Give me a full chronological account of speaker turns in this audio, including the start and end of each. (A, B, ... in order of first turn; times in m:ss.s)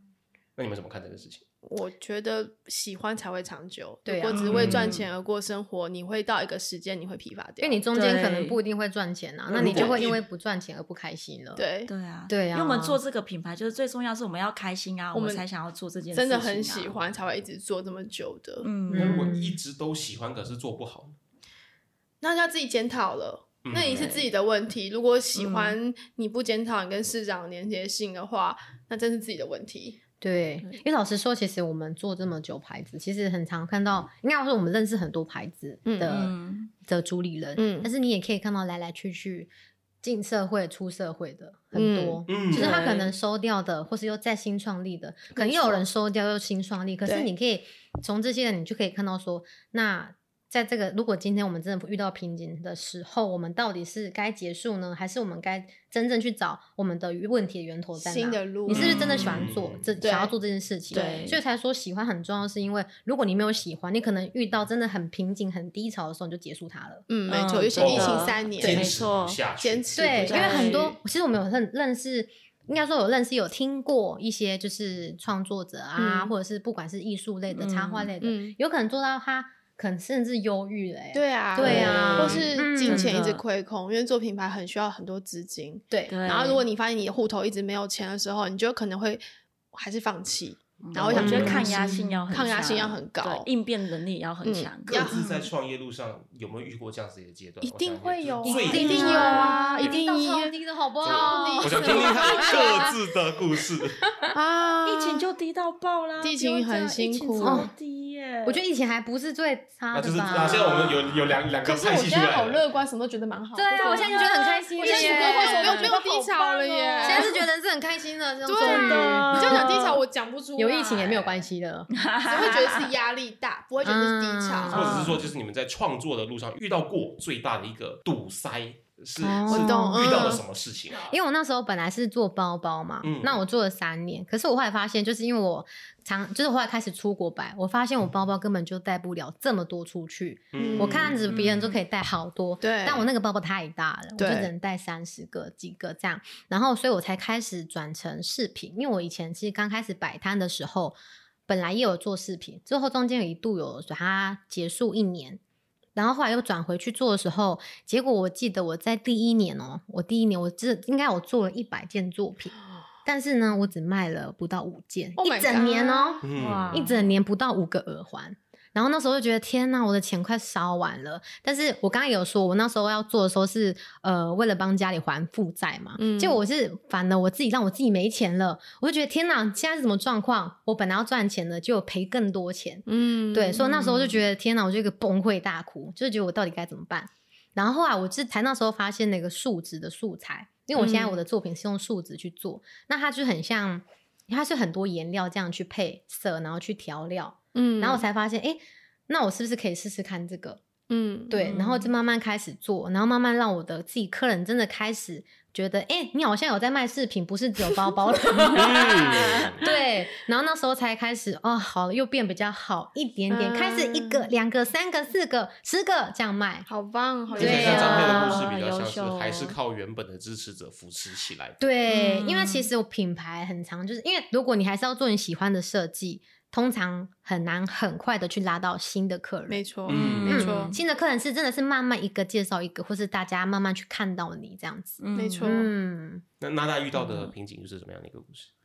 0:00.6-0:01.4 A
0:01.6-0:07.8 B
0:04.0-0:04.6 C
0:04.3-0:05.1 D
0:04.5-0:04.9 A
0:07.6-0:11.6 C
0:07.9-0:08.6 D
0:09.5-0:10.2 A
0:11.6-0:11.9 B
0:11.9-0:17.0 D
0:12.3-0:13.0 C
0:15.1-0:15.4 B
0:16.1-0:18.7 B
0:18.6-0:19.3 D
0:18.9-0:19.6 C
0:18.9-0:21.2 A
0:22.2-0:30.0 B
0:23.6-0:24.2 A
0:23.9-0:24.3 D
0:25.4-0:25.8 D
0:30.2-0:36.3 C
0:35.8-0:36.2 B
0:36.0-0:36.7 D
0:36.8-0:39.5 C
0:37.6-0:37.9 B
0:40.0-1:07.0 C
0:41.7-0:42.9 B
0:42.3-0:42.8 A
0:42.5-0:43.1 D
0:45.3-0:45.8 B
0:58.0-0:59.2 B
0:58.7-0:59.9 A
1:00.0-1:00.3 B
1:00.9-1:01.4 D
1:00.9-1:01.3 B
1:07.1-1:08.9 B
1:07.3-1:09.4 D
1:07.8-1:10.6 A
1:09.6-1:10.9 B
1:10.0-1:23.2 C
1:10.3-1:10.9 D
1:16.0-1:16.3 B
1:17.5-1:18.1 D
1:18.2-1:18.5 B
1:21.1-1:33.5 B
1:21.6-1:23.4 D
1:21.6-1:22.4 A
1:25.9-1:26.2 C
1:26.1-1:26.6 D
1:30.8-1:35.4 D
1:31.1-1:32.0 C
1:31.1-1:31.7 A
1:34.4-1:35.2 B
1:34.9-1:40.0 A
1:37.6-1:42.9 B
1:38.4-1:42.9 C
1:38.7-1:39.5 D
1:41.0-1:44.0 A
1:44.3-1:45.3 B
1:44.8-1:48.6 D
1:46.2-1:47.7 B
1:47.4-1:47.7 C
1:48.4-1:51.0 C
1:49.9-1:52.6 A
1:50.4-1:57.4 B
1:53.5-1:56.4 C
1:53.7-1:57.4 D
1:57.0-1:59.9 C
1:58.4-2:01.3 B
1:58.6-2:00.0 D
2:00.6-2:02.5 C
2:01.9-2:02.9 D
2:02.3-2:05.0 B
2:03.8-2:05.1 C
2:04.7-2:05.3 D
2:04.7-2:11.1 A
2:09.2-2:10.4 C
2:09.5-2:10.4 B
2:11.0-2:35.4 C
2:13.0-2:13.4 A
2:20.5-2:21.2 A
2:20.6-2:21.2 B
2:21.3-2:21.8 D
2:22.6-2:23.1 B
2:24.2-2:24.5 B
2:36.0-3:20.6 C
2:45.2-2:46.2 B
2:46.2-2:46.8 A
2:46.4-2:47.0 D
2:56.0-2:56.4 B
3:02.9-3:04.2 B
3:10.7-3:11.2 B
3:17.5-3:18.0 B
3:20.9-3:21.6 B
3:21.3-3:36.7 C
3:21.4-3:21.9 D
3:28.5-3:29.6 A
3:33.3-3:34.3 B
3:36.7-3:38.4 B
3:37.3-3:39.6 D
3:37.3-3:38.4 C
3:37.4-3:41.6 A
3:41.6-3:49.6 C
3:41.9-3:42.7 D
3:49.5-3:50.7 B
3:49.9-3:50.4 A
3:49.9-3:50.8 D
3:50.2-3:56.2 C
3:55.0-3:55.6 D
3:55.2-3:55.7 B
3:56.4-3:58.5 A
3:56.9-3:57.3 D